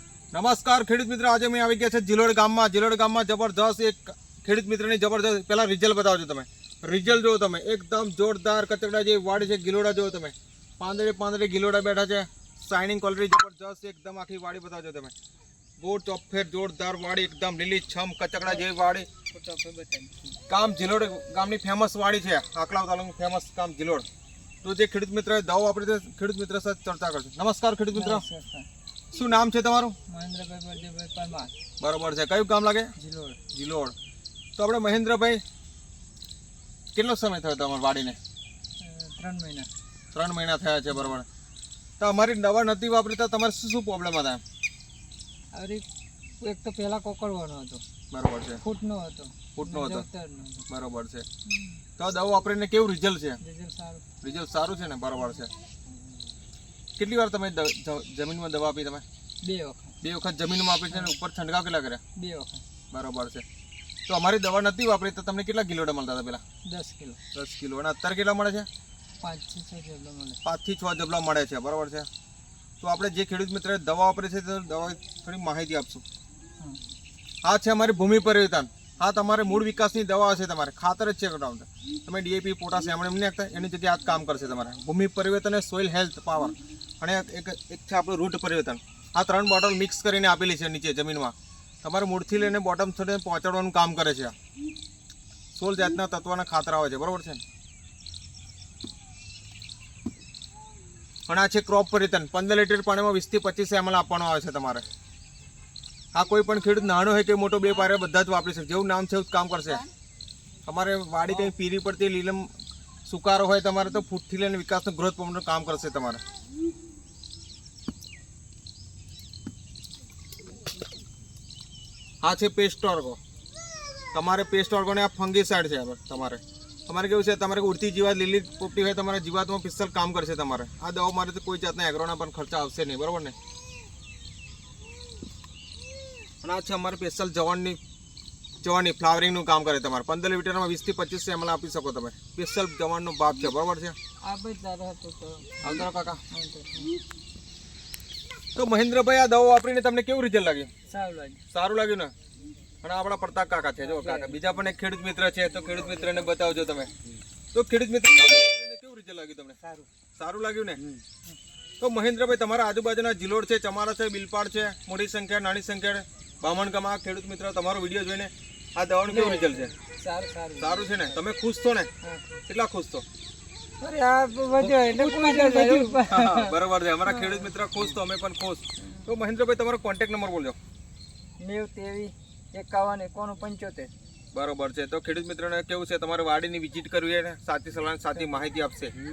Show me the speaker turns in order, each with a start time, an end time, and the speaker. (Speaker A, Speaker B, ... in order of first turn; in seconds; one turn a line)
Speaker A: 0.3-15.1
Speaker A: 15.8-19.1
Speaker B: 18.4-18.7
Speaker B: 19.3-20.4
Speaker A: 20.5-24.1
Speaker A: 24.6-28.2
Speaker B: 27.9-28.7
Speaker A: 29.1-30.0
Speaker B: 30.1-31.6
Speaker A: 31.8-32.9
Speaker B: 33.0-33.4
Speaker A: 33.5-34.0
Speaker A: 34.6-35.4
Speaker A: 37.0-38.2
Speaker B: 38.8-39.7
Speaker A: 40.1-41.3
Speaker B: 40.9-41.2
Speaker A: 42.0-44.4
Speaker B: 45.5-45.8
Speaker B: 46.4-47.8
Speaker A: 48.1-48.6
Speaker B: 48.6-50.7
Speaker A: 49.6-50.1
Speaker A: 50.7-51.3
Speaker B: 51.5-51.8
Speaker A: 52.0-53.4
Speaker B: 53.4-54.0
Speaker A: 54.2-55.5
Speaker A: 57.0-59.0
Speaker B: 59.4-60.0
Speaker A: 60.0-62.0
Speaker B: 60.9-61.1
Speaker B: 62.2-62.6
Speaker A: 62.9-63.5
Speaker A: 64.1-66.4
Speaker B: 66.7-67.2
Speaker A: 67.3-68.7
Speaker B: 69.2-70.4
Speaker A: 70.4-72.1
Speaker A: 72.8-76.0
Speaker A: 77.4-94.3
Speaker A: 95.5-97.4
Speaker A: 101.3-104.8
Speaker A: 106.1-109.8
Speaker A: 110.7-112.5
Speaker A: 113.1-116.2
Speaker A: 122.2-123.2
Speaker A: 124.1-133.4
Speaker A: 136.4-137.8
Speaker A: 138.6-144.0
Speaker B: 144.2-147.0
Speaker A: 145.6-146.2
Speaker A: 148.6-150.7
Speaker B: 150.9-151.4
Speaker A: 151.5-152.1
Speaker A: 152.8-156.9
Speaker B: 153.8-154.6
Speaker B: 156.0-156.3
Speaker A: 157.5-159.6
Speaker B: 159.6-159.9
Speaker A: 160.2-160.9
Speaker A: 161.8-169.8
Speaker B: 169.1-171.2
Speaker A: 170.6-171.9
Speaker B: 172.0-172.4
Speaker A: 172.5-173.1
Speaker B: 173.8-177.5
Speaker A: 174.6-180.6
Speaker B: 178.8-179.1
Speaker B: 181.4-183.9
Speaker A: 184.3-188.9